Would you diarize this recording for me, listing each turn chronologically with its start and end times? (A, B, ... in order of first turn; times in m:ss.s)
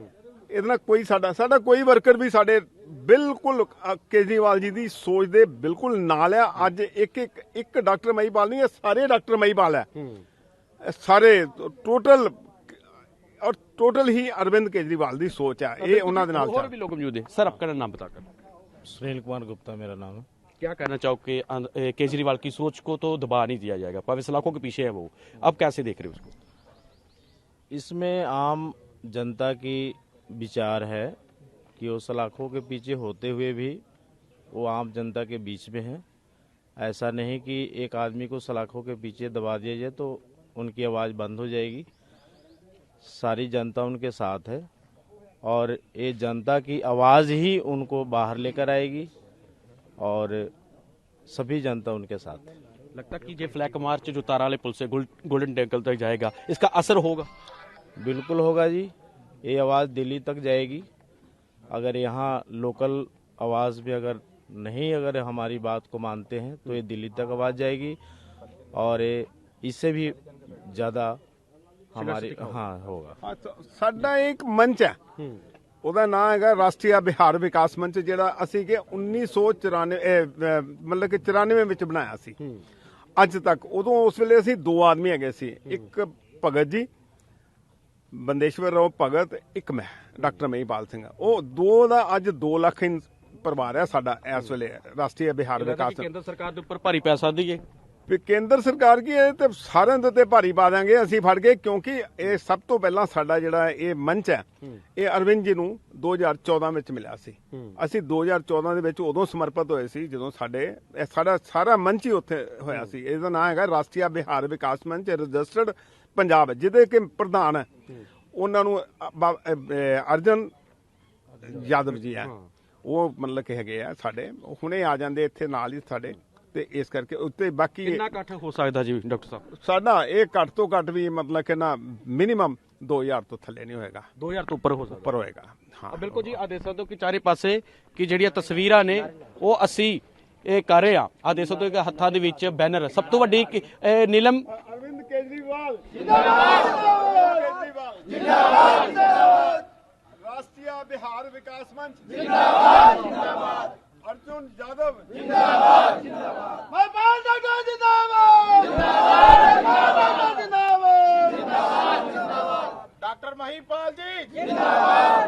0:00.5-0:09.9 A
0:10.8-0:12.7 A
0:13.4-0:16.7 A
0:15.8-0:18.3 B
0:18.8-0:20.3 C
0:20.6-0:26.3 B
0:27.7-0:31.2 C
0:31.8-0:33.8 C
0:34.5-0:36.0 C
0:36.8-0:41.9 C
0:43.0-0:44.7 C
0:45.4-0:49.1 C
0:50.0-0:50.5 C
0:51.3-0:52.6 C
0:53.0-0:57.3 B
0:58.0-1:00.9 C
1:01.7-1:08.0 C
1:08.7-1:11.2 C
1:11.9-1:13.2 C
1:12.0-1:12.6 B
1:13.2-1:15.0 A
1:15.8-1:22.4 A
1:23.2-1:26.9 A
1:28.1-1:36.1 A
1:35.6-1:37.6 B
1:38.1-1:44.4 A
1:45.0-1:57.7 A
1:58.3-2:00.5 A
2:01.4-2:02.3 A
2:02.8-2:08.0 A
2:07.9-2:09.5 B
2:09.6-2:14.1 A
2:14.2-2:15.1 B
2:15.0-2:16.2 A
2:15.9-2:24.5 B
2:24.5-2:29.6 A
2:30.2-2:35.7 A
2:36.7-2:41.4 A
2:43.0-2:44.2 A